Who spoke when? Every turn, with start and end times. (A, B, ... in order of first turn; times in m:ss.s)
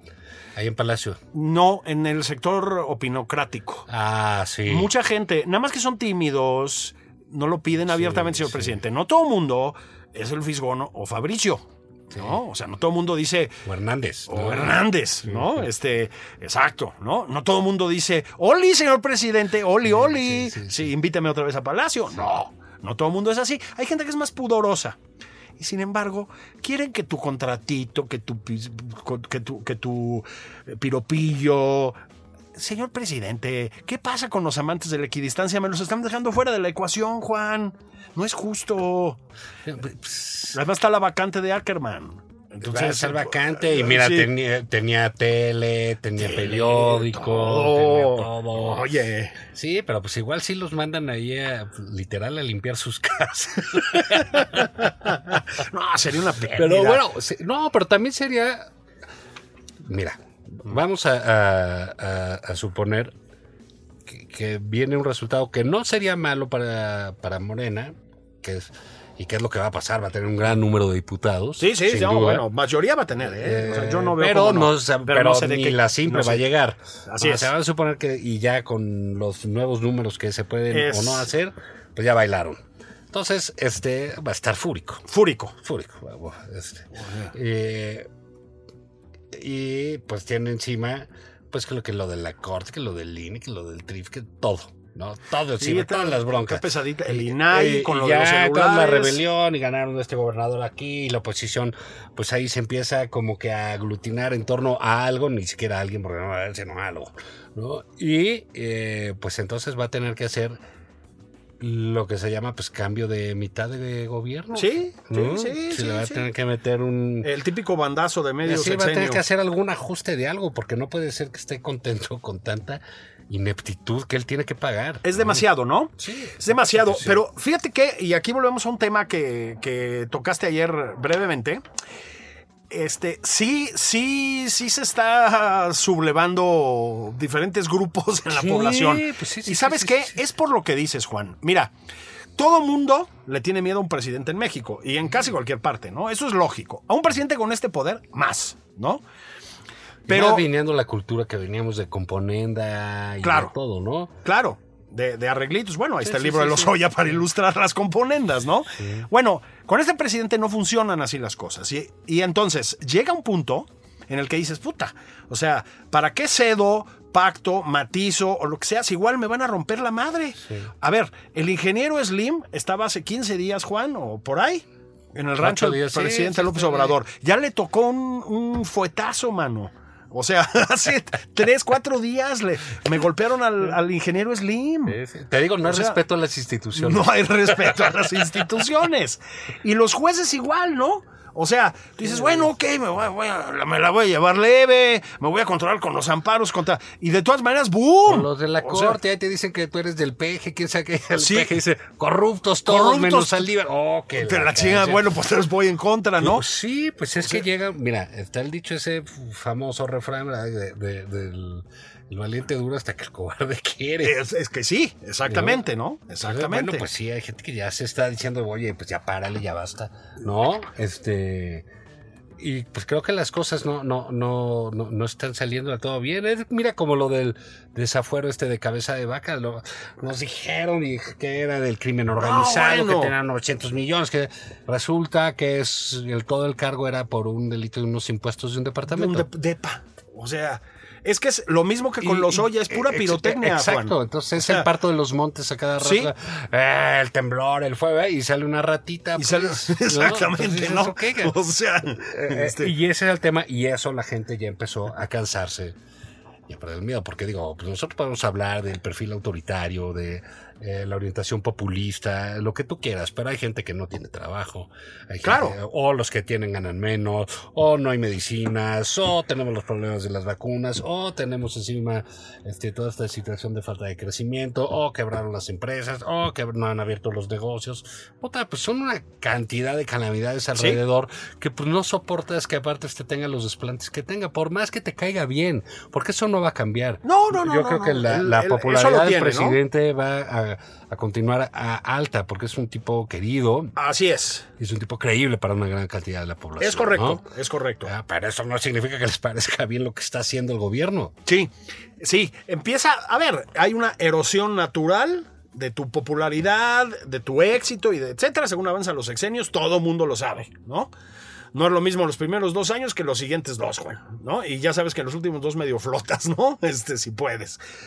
0:00.6-0:01.2 A
0:01.3-0:03.9 B
0:03.9-0:04.9 A
0:04.7-0:13.6 B
0:07.8-0:08.8 A
0:12.1-0:12.4 A
0:13.6-0:15.7 A
0:14.3-0:25.0 B
0:19.8-0:20.9 A
0:22.1-0:22.5 A
0:25.6-0:32.0 B
0:32.6-0:39.2 B
0:39.7-0:40.6 A
0:40.5-0:44.3 B
0:42.6-0:48.9 A
0:46.2-0:49.4 B
0:49.4-0:54.9 A
0:54.3-0:57.0 B
0:56.6-0:58.7 A
0:59.8-1:03.1 A
1:04.1-1:12.4 A
1:11.6-1:16.4 B
1:13.2-1:25.1 A
1:17.1-1:17.5 B
1:20.7-1:21.3 B
1:25.1-1:25.6 B
1:25.6-1:28.1 A
1:27.0-1:27.3 B
1:29.3-1:50.6 A
1:35.6-1:39.2 B
1:51.6-1:57.3 A
1:54.6-1:56.2 B
1:57.2-1:59.2 B
1:58.4-2:05.4 A
2:05.0-2:11.6 B
2:06.0-2:07.2 A
2:12.7-2:21.7 B
2:18.3-2:20.2 A
2:22.4-2:29.0 B
2:30.1-2:34.1 A
2:30.1-2:30.4 B
2:33.2-2:33.5 B
2:34.2-3:05.0 B
2:36.0-2:36.8 A
2:38.7-2:39.1 A
2:50.4-2:50.7 A
2:55.4-2:57.0 A
3:04.9-3:08.4 A
3:05.7-3:06.0 B
3:06.8-3:19.0 B
3:12.0-3:12.5 A
3:18.1-3:25.0 A
3:21.2-3:21.5 B
3:22.7-3:23.5 B
3:24.2-3:26.4 B
3:26.2-3:34.2 A
3:34.0-3:36.9 B
3:35.3-3:35.6 A
3:36.2-3:41.7 A
3:42.4-3:59.3 A
3:52.2-3:53.1 B
3:58.9-4:04.7 B
4:02.0-4:11.4 A
4:05.8-4:06.1 B
4:09.2-4:12.7 B
4:12.0-4:15.8 A
4:16.5-4:53.7 A
4:25.2-4:25.6 B
4:47.0-4:49.6 B
4:53.8-4:54.5 B
4:54.6-4:57.2 A
4:56.6-4:57.9 B
4:57.8-5:01.1 A
5:01.3-5:10.9 B
5:11.5-5:17.6 B